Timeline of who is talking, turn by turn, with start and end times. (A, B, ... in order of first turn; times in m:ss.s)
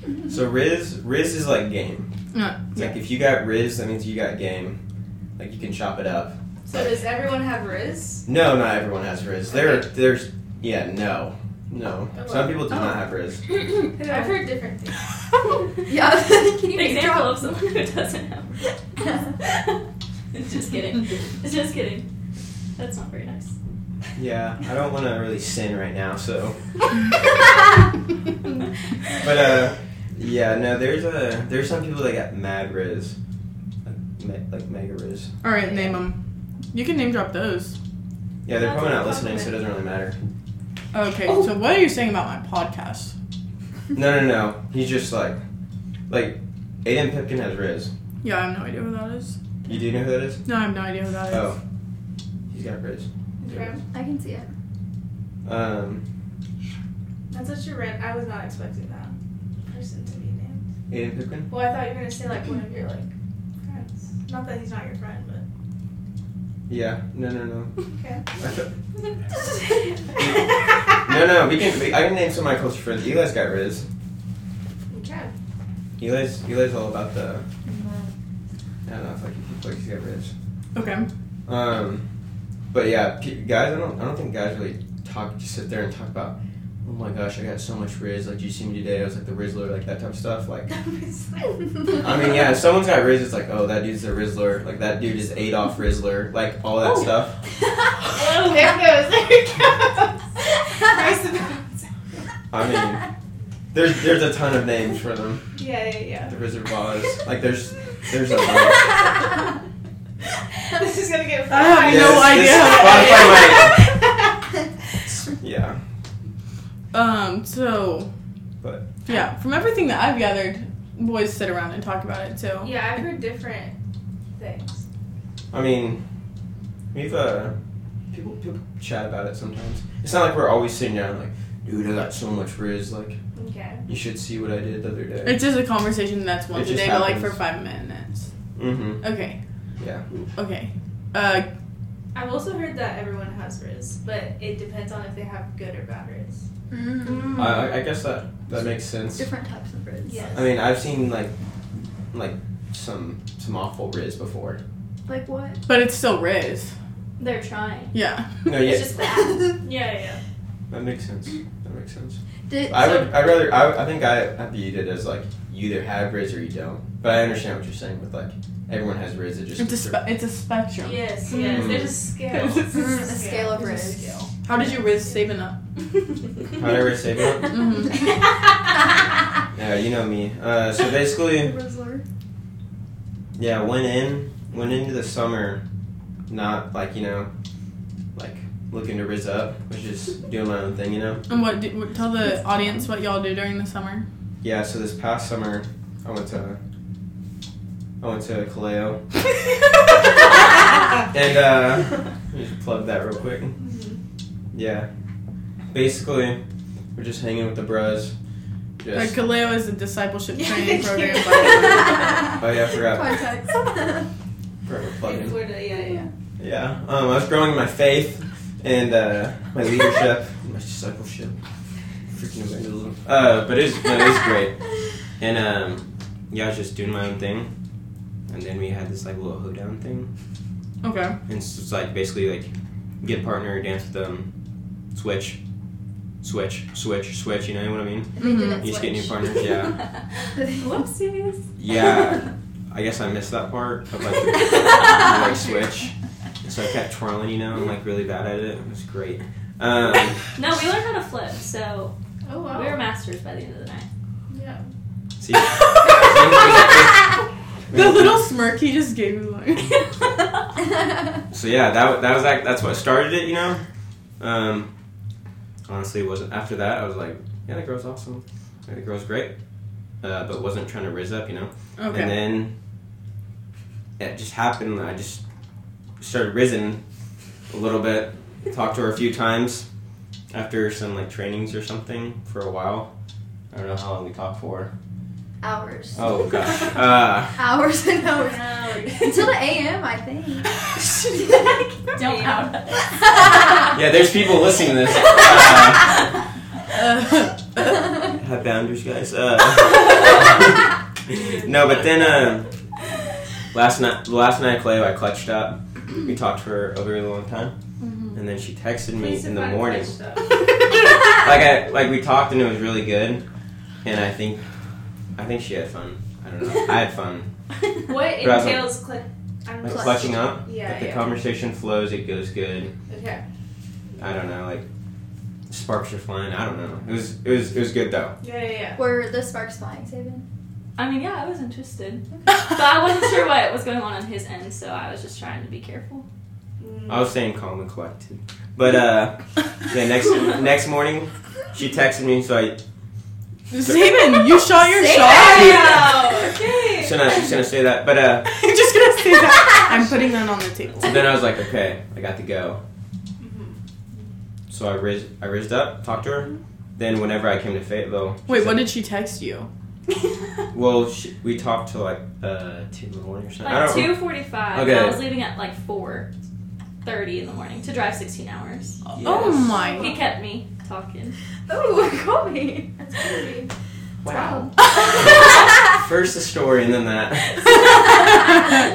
0:00.3-0:02.1 A
0:02.3-0:03.0 B
0:02.7-0:04.8 A
0:05.4-0:06.8 A
0:06.6-0:08.2 C
0:08.2-0:13.4 A
0:09.5-0:09.9 C
0:12.1-0:12.7 C
0:14.0-0:15.1 C
0:14.0-0:14.3 D
0:15.8-0:17.4 E
0:16.6-0:18.7 D
0:19.4-0:19.8 D
0:20.3-0:22.1 D
0:22.8-0:23.6 D
0:24.2-0:26.6 A
0:29.1-0:33.2 A
0:33.8-0:35.3 A
0:35.4-0:36.2 B
0:36.7-0:37.8 B
0:38.4-0:40.2 A
0:38.6-0:39.5 C
0:40.9-0:43.1 B
0:43.9-0:45.4 A
0:46.1-0:47.9 A
0:48.2-0:49.4 B
0:49.6-0:50.4 A
0:50.4-0:51.5 B
0:51.3-0:51.6 A
0:52.5-0:53.7 A
0:53.4-0:53.8 C
0:53.9-0:54.5 E
0:55.4-0:56.0 A
0:57.3-0:59.1 C
0:59.6-1:00.6 C
1:00.9-1:01.5 A
1:01.5-1:03.1 C
1:03.6-1:05.4 C
1:06.7-1:07.8 A
1:07.9-1:08.2 C
1:08.4-1:08.7 A
1:10.2-1:13.9 A
1:14.9-1:15.3 C
1:16.0-1:17.4 A
1:17.7-1:18.1 E
1:18.8-1:20.3 A
1:20.7-1:21.1 B
1:21.4-1:22.0 A
1:22.7-1:30.7 A
1:30.7-1:32.1 C
1:32.0-1:37.3 A
1:38.1-1:41.9 C
1:42.5-1:43.0 A
1:43.7-1:45.5 A
1:45.6-1:46.4 C
1:46.3-1:49.0 A
1:50.6-1:54.4 C
1:51.5-1:53.4 B
1:51.8-1:53.8 A
1:55.1-1:55.8 A
1:56.9-1:58.1 B
1:58.6-1:58.9 A
1:59.0-2:03.0 B
2:02.6-2:03.7 C
2:04.4-2:04.8 C
2:05.5-2:06.0 A
2:06.9-2:07.5 A
2:08.1-2:13.2 A
2:13.3-2:13.8 C
2:13.9-2:15.4 A
2:15.2-2:18.3 B
2:16.5-2:17.4 A
2:18.6-2:19.1 A
2:19.0-2:19.4 B
2:19.8-2:20.0 A
2:20.3-2:21.5 B
2:22.1-2:26.4 C
2:26.7-2:27.6 E
2:27.3-2:29.3 A
2:29.1-2:30.3 E
2:30.0-2:30.5 C
2:30.3-2:31.3 A
2:32.1-2:34.6 A
2:35.0-2:35.6 E
2:35.7-2:36.7 B
2:37.2-2:37.9 D
2:37.9-2:38.5 B
2:38.4-2:38.9 A
2:38.4-2:39.6 D
2:39.0-2:39.5 E
2:39.6-2:40.2 C
2:40.7-2:50.0 A
2:42.5-2:43.2 E
2:49.6-2:51.1 B
2:50.8-2:55.1 C
2:51.4-2:52.0 A
2:52.7-2:54.3 E
2:54.4-2:55.6 B
2:56.6-2:57.8 A
2:57.5-2:58.0 B
2:59.5-3:01.6 A
3:01.2-3:02.0 E
3:03.4-3:05.6 A
3:06.3-3:07.3 A
3:08.1-3:11.2 A
3:11.3-3:14.0 B
3:14.4-3:16.6 A
3:18.0-3:19.0 A
3:21.1-3:23.6 A
3:23.6-3:24.0 C
3:24.5-3:24.9 A
3:25.7-3:26.4 A
3:26.9-3:28.1 A
3:28.8-3:29.2 A
3:28.9-3:32.2 B
3:30.3-3:32.3 C
3:31.9-3:34.1 E
3:32.4-3:33.2 A
3:34.6-3:35.4 A
3:35.0-3:36.1 C
3:35.7-3:36.1 E
3:36.4-3:41.4 A
3:42.1-3:47.5 A
3:48.3-3:50.1 A
3:50.8-3:51.2 B
3:51.3-3:54.3 A
3:54.9-3:55.4 A
3:56.2-3:59.8 A
3:58.2-3:59.6 E
3:58.2-3:58.6 B
3:59.9-4:01.4 D
4:00.3-4:00.8 E
4:01.6-4:05.9 A
4:04.4-4:05.1 E
4:06.4-4:10.3 A
4:10.3-4:11.9 D
4:12.2-4:12.8 C
4:12.5-4:13.9 D
4:14.3-4:14.6 C
4:15.2-4:17.2 A
4:17.7-4:18.2 A
4:17.7-4:19.8 B
4:19.7-4:20.1 D
4:21.3-4:23.6 A
4:24.2-4:24.7 A
4:25.6-4:29.3 A
4:30.0-4:32.5 A
4:31.8-4:32.2 B
4:34.0-4:35.2 A
4:36.0-4:36.8 A
4:37.5-4:39.6 A
4:40.3-4:42.9 A
4:43.5-4:44.7 A
4:45.4-4:46.3 E
4:45.9-4:47.6 A
4:47.3-4:51.7 E
4:48.1-4:49.4 D
4:51.9-4:52.9 D
4:52.0-4:52.6 C
4:52.9-4:53.8 E
4:53.7-4:56.1 A
4:55.2-4:55.9 E
4:56.7-4:57.8 B
4:58.2-5:02.5 A
5:01.1-5:01.5 C
5:03.5-5:07.5 A
5:07.8-5:08.2 D
5:08.1-5:09.9 A
5:08.9-5:10.4 C
5:11.0-5:13.2 A
5:13.8-5:14.4 A
5:15.2-5:17.3 A
5:17.9-5:21.1 C
5:18.1-5:18.8 A
5:19.6-5:22.7 A
5:19.6-5:20.2 E
5:22.9-5:23.2 C
5:24.0-5:24.6 A
5:25.5-5:28.1 A
5:28.2-5:28.8 C
5:28.8-5:30.2 E
5:30.8-5:36.0 D
5:36.6-5:37.1 C
5:36.9-5:42.6 A
5:43.5-5:45.7 B
5:43.6-5:44.0 A
5:44.5-5:46.3 E
5:45.0-5:47.1 C
5:45.3-5:46.0 A
5:46.7-5:48.3 A
5:48.3-5:51.1 B
5:50.8-5:52.6 A
5:53.2-5:53.6 C
5:54.5-5:58.7 A
5:58.3-5:59.5 B
6:00.5-6:05.1 A
6:03.4-6:06.1 D
6:06.8-6:08.8 D
6:08.8-6:09.9 B
6:08.9-6:09.6 A
6:09.7-6:10.0 C
6:09.7-6:11.2 D
6:11.5-6:13.1 E
6:12.8-6:13.5 C
6:14.0-6:18.0 A
6:14.1-6:14.4 E
6:17.5-6:18.0 D